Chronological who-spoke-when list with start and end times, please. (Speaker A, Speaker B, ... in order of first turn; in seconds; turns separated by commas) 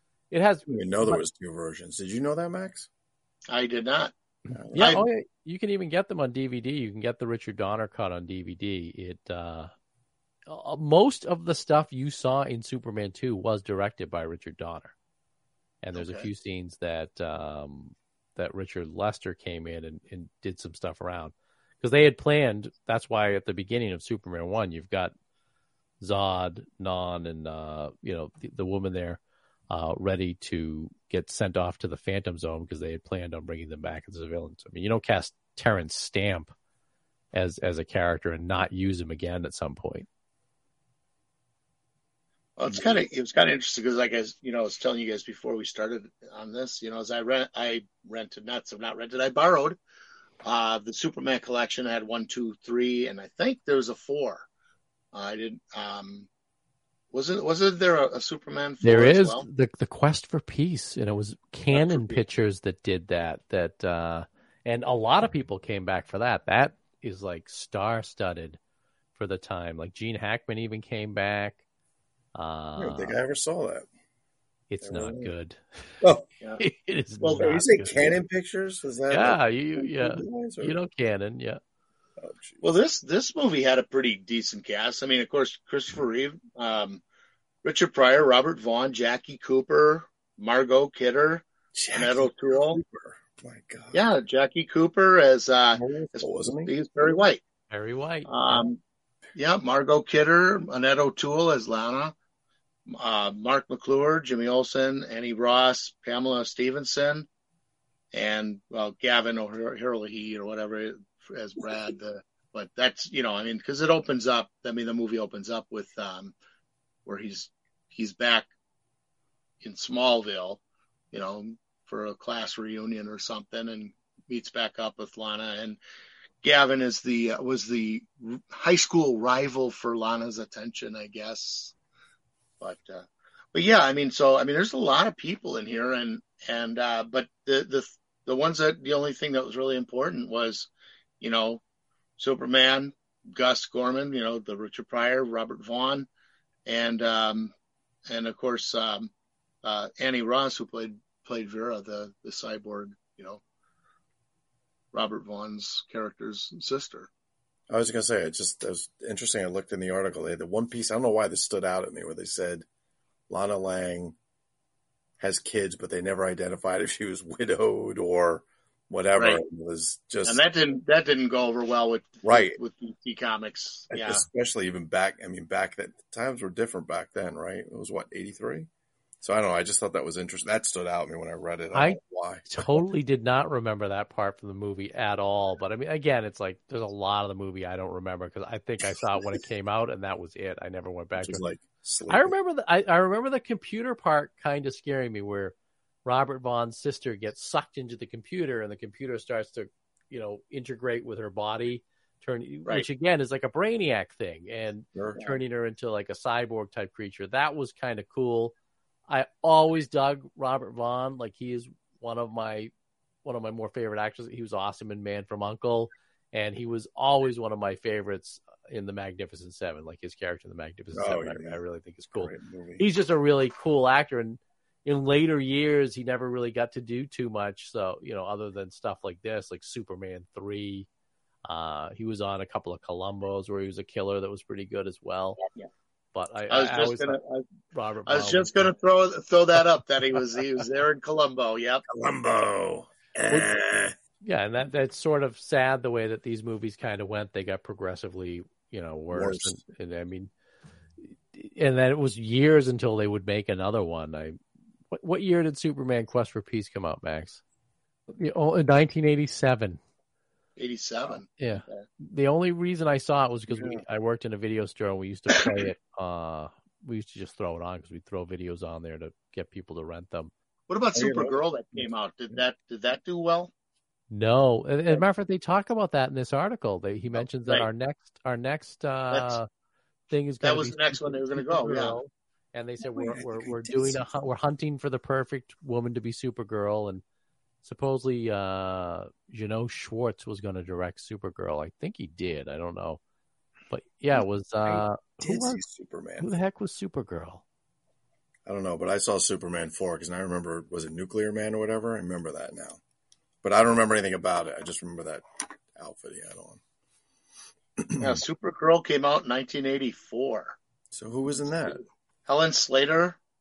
Speaker A: 0.3-1.2, Speaker B: 0.7-2.9, Speaker C: 3.5-4.1, Speaker B: 4.5-5.0, Speaker A: 4.7-9.7, Speaker C: 4.8-5.0, Speaker A: 10.5-14.9, Speaker A: 15.8-25.1, Speaker C: 15.9-16.3, Speaker A: 26.0-36.5, Speaker A: 37.3-40.1, Speaker C: 42.6-49.8, Speaker C: 50.4-54.5, Speaker C: 55.1-56.3, Speaker C: 57.1-59.5, Speaker A: 58.8-68.6, Speaker C: 61.8-62.2, Speaker A: 69.2-71.6, Speaker A: 72.3-73.2, Speaker B: 72.8-73.9, Speaker A: 74.7-75.6, Speaker B: 74.8-75.3, Speaker A: 76.6-78.2, Speaker B: 77.2-80.8, Speaker C: 77.2-77.5, Speaker A: 79.1-81.6, Speaker B: 82.2-82.6, Speaker C: 82.6-87.0, Speaker C: 87.6-92.8, Speaker B: 91.8-94.0, Speaker C: 93.9-97.4, Speaker B: 95.7-96.7, Speaker A: 97.7-98.6, Speaker C: 98.3-98.8, Speaker C: 99.4-102.2, Speaker C: 102.9-107.3, Speaker C: 108.1-116.3, Speaker C: 117.1-118.5, Speaker C: 119.6-120.6, Speaker C: 121.1-125.8, Speaker C: 126.4-131.8, Speaker C: 132.6-141.6, Speaker C: 142.2-146.1, Speaker C: 146.7-147.5, Speaker C: 148.1-149.1, Speaker C: 149.6-153.4, Speaker C: 154.9-157.1, Speaker B: 157.7-162.7, Speaker B: 163.3-164.2, Speaker B: 165.2-170.4, Speaker C: 169.2-169.4, Speaker C: 170.2-174.2, Speaker B: 172.2-172.6, Speaker B: 173.9-178.7, Speaker B: 179.2-182.8, Speaker A: 181.7-191.5, Speaker B: 191.2-192.3, Speaker A: 192.1-195.5, Speaker A: 196.1-208.5, Speaker B: 204.9-205.3, Speaker A: 209.1-212.7, Speaker A: 213.2-230.9, Speaker B: 220.9-221.6, Speaker B: 222.1-222.9, Speaker A: 231.5-235.4, Speaker A: 236.1-237.2, Speaker C: 236.5-237.4, Speaker A: 237.7-238.7, Speaker C: 238.1-241.8, Speaker B: 241.9-243.9, Speaker A: 244.2-250.3, Speaker B: 249.1-249.6, Speaker A: 251.1-254.4, Speaker A: 254.9-257.4, Speaker A: 258.2-259.8, Speaker C: 260.6-261.8, Speaker A: 261.4-270.3, Speaker C: 270.7-273.5, Speaker B: 270.9-271.4, Speaker A: 274.1-279.5, Speaker C: 279.1-279.4, Speaker A: 280.1-287.0, Speaker C: 280.4-282.0, Speaker B: 282.9-284.2, Speaker A: 287.6-293.0, Speaker A: 293.7-295.6, Speaker B: 294.2-296.3, Speaker A: 296.2-297.4, Speaker B: 298.5-302.8, Speaker B: 303.4-306.6, Speaker B: 307.9-308.2, Speaker C: 308.0-310.6, Speaker B: 310.9-311.8, Speaker C: 312.3-313.2